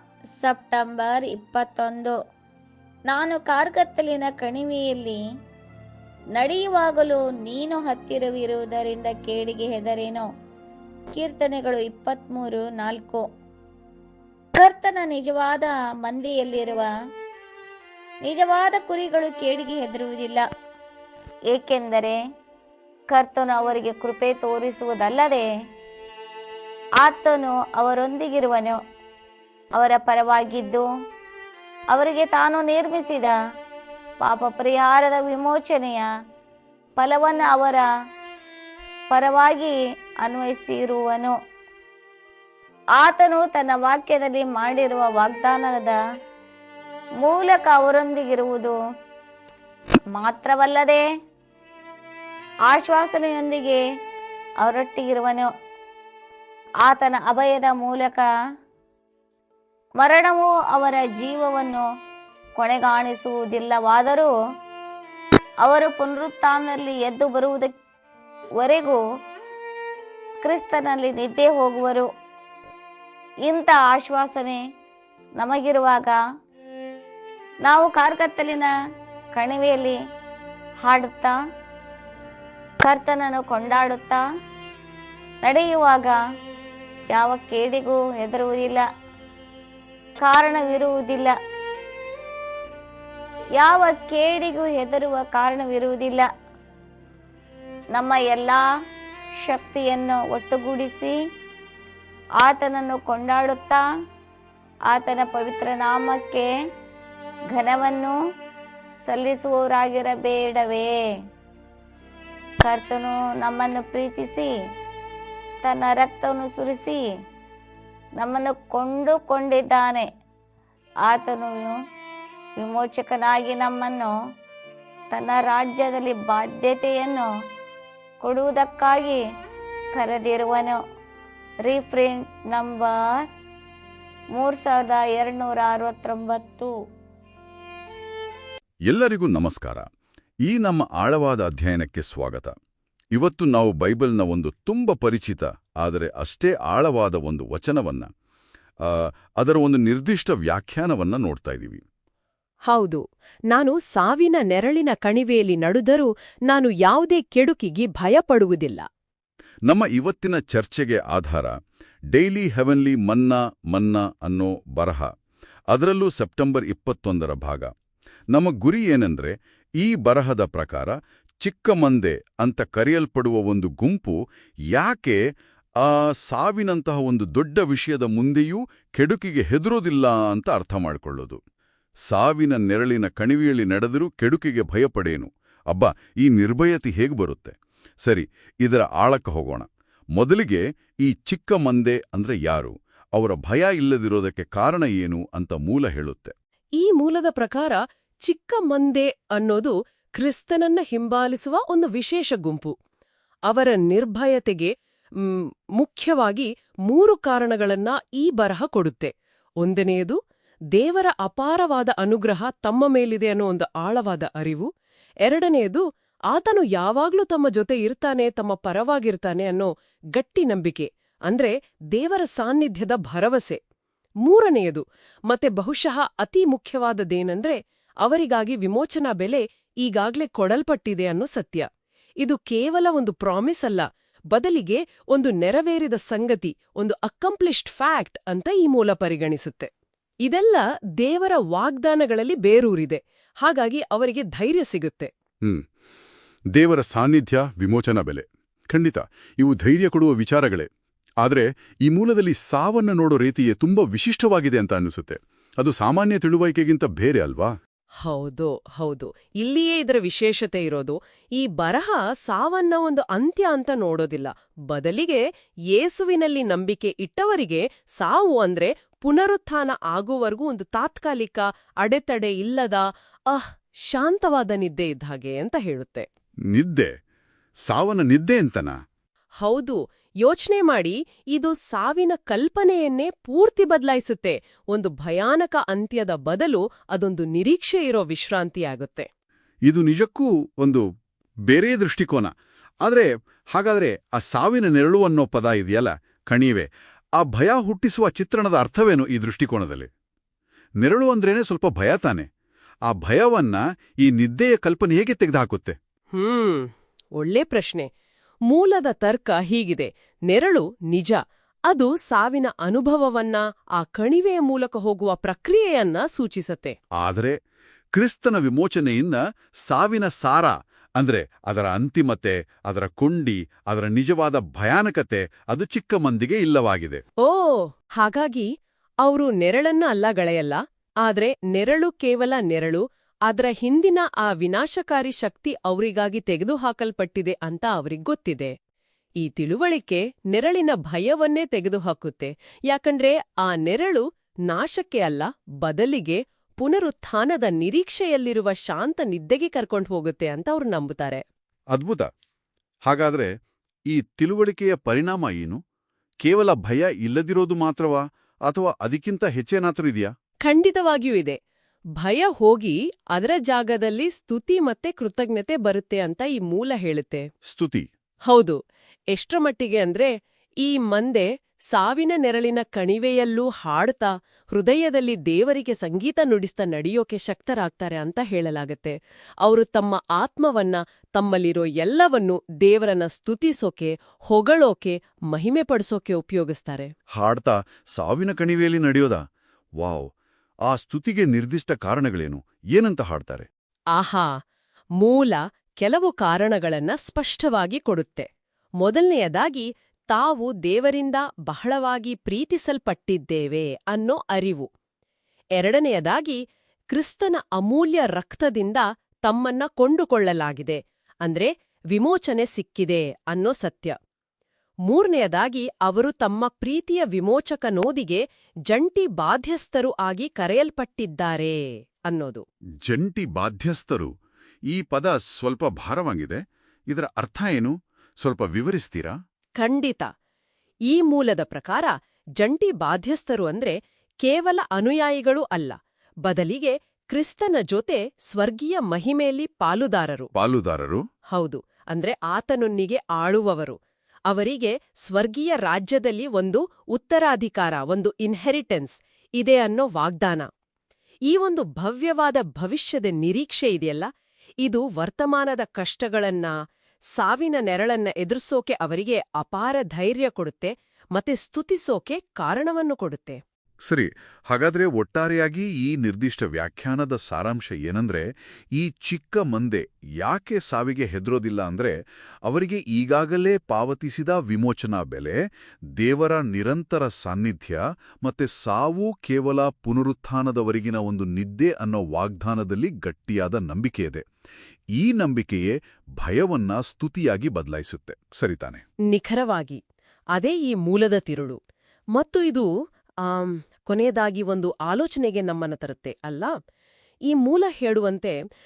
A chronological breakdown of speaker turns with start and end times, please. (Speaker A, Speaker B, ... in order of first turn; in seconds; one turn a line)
Speaker A: 0.4-2.1
Speaker A: 3.1-5.2
Speaker A: 6.3-10.2
Speaker A: 11.1-13.2
Speaker A: 14.5-16.9
Speaker A: 18.2-20.4
Speaker A: 21.5-22.2
Speaker A: 23.1-25.4
Speaker A: 27.0-28.8
Speaker A: 29.7-30.9
Speaker A: 31.9-33.4
Speaker A: 34.2-36.1
Speaker A: 37.0-37.9
Speaker A: 39.1-41.3
Speaker A: 43.0-46.0
Speaker A: 47.2-48.8
Speaker A: 50.1-51.0
Speaker A: 52.7-53.8
Speaker A: 54.6-55.5
Speaker A: 56.8-58.2
Speaker A: 60.0-61.8
Speaker A: 62.6-64.3
Speaker A: 65.6-67.7
Speaker A: 68.6-69.0
Speaker A: 70.4-72.1
Speaker A: 73.5-74.6
Speaker A: 75.4-76.2
Speaker A: 77.6-78.7
Speaker A: 79.3-80.0
Speaker A: 80.8-81.3
Speaker A: 82.8-84.2
Speaker A: 85.4-86.2
Speaker A: 87.1-88.8
Speaker A: 90.2-91.3
Speaker A: 93.6-96.2
Speaker A: 97.9-98.6
Speaker A: 99.4-101.1
Speaker A: 102.4-103.8
Speaker A: 104.9-106.5
Speaker A: 107.5-108.1
Speaker A: 109.0-110.9
Speaker A: 112.6-114.5
Speaker A: 115.6-117.0
Speaker A: 118.2-120.0
Speaker A: 121.1-121.7
Speaker A: 122.6-124.1
Speaker A: 125.1-127.3
Speaker A: 128.2-129.2
Speaker A: 129.9-130.8
Speaker A: 131.6-133.2
Speaker A: 134.3-136.7
Speaker B: 138.9-139.8
Speaker B: 140.4-142.5
Speaker B: 143.1-148.1
Speaker B: 148.8-151.8
Speaker C: 152.7-158.8
Speaker B: 159.7-161.5
Speaker B: 162.1-165.1
Speaker B: 165.7-167.7
Speaker B: 168.3-174.2
Speaker B: 174.7-175.2
Speaker B: 175.8-181.4
Speaker B: 182.1-196.3
Speaker C: 196.8-202.7
Speaker C: 203.5-210.2
Speaker C: 210.7-214.7
Speaker C: 215.2-223.6
Speaker C: 224.2-231.7
Speaker C: 232.2-239.7
Speaker C: 240.2-245.1
Speaker B: 246.5-250.7
Speaker B: 251.2-257.5
Speaker C: 258.0-276.1
Speaker B: 276.5-276.9
Speaker B: 277.6-278.7
Speaker C: 279.4-289.1
Speaker B: 289.7-290.8
Speaker B: 291.5-299.9
Speaker B: 300.8-302.3
Speaker B: 302.9-305.8
Speaker C: 306.1-307.9
Speaker C: 308.5-316.8
Speaker B: 317.0-317.4
Speaker B: 317.9-327.0
Speaker C: 327.2-328.5
Speaker C: 329.0-338.5
Speaker C: 339.2-351.2
Speaker B: 351.7-352.1
Speaker B: 352.9-353.3
Speaker B: 353.9-355.6
Speaker B: 356.2-360.1
Speaker C: 360.4-361.4
Speaker C: 362.0-367.2
Speaker B: 367.5-367.9
Speaker C: 368.3-368.6
Speaker C: 369.1-370.1
Speaker C: 370.6-386.9
Speaker B: 387.1-389.2
Speaker B: 389.8-390.1
Speaker B: 390.7-393.5
Speaker C: 393.9-394.3
Speaker C: 395.0-398.3
Speaker C: 398.8-404.7
Speaker C: 405.6-413.9
Speaker C: 414.9-422.4
Speaker B: 422.8-424.1
Speaker B: 424.7-429.1
Speaker C: 429.6-430.1
Speaker C: 430.9-440.3
Speaker B: 440.3-441.0
Speaker C: 441.3-443.8
Speaker C: 444.3-450.5
Speaker C: 451.3-454.1
Speaker C: 454.6-456.5
Speaker C: 457.1-463.4
Speaker B: 463.8-475.4
Speaker B: 476.0-484.2
Speaker B: 484.9-488.8
Speaker C: 489.1-489.8
Speaker C: 490.3-491.6
Speaker C: 492.1-492.7
Speaker C: 493.2-496.5
Speaker C: 497.3-498.4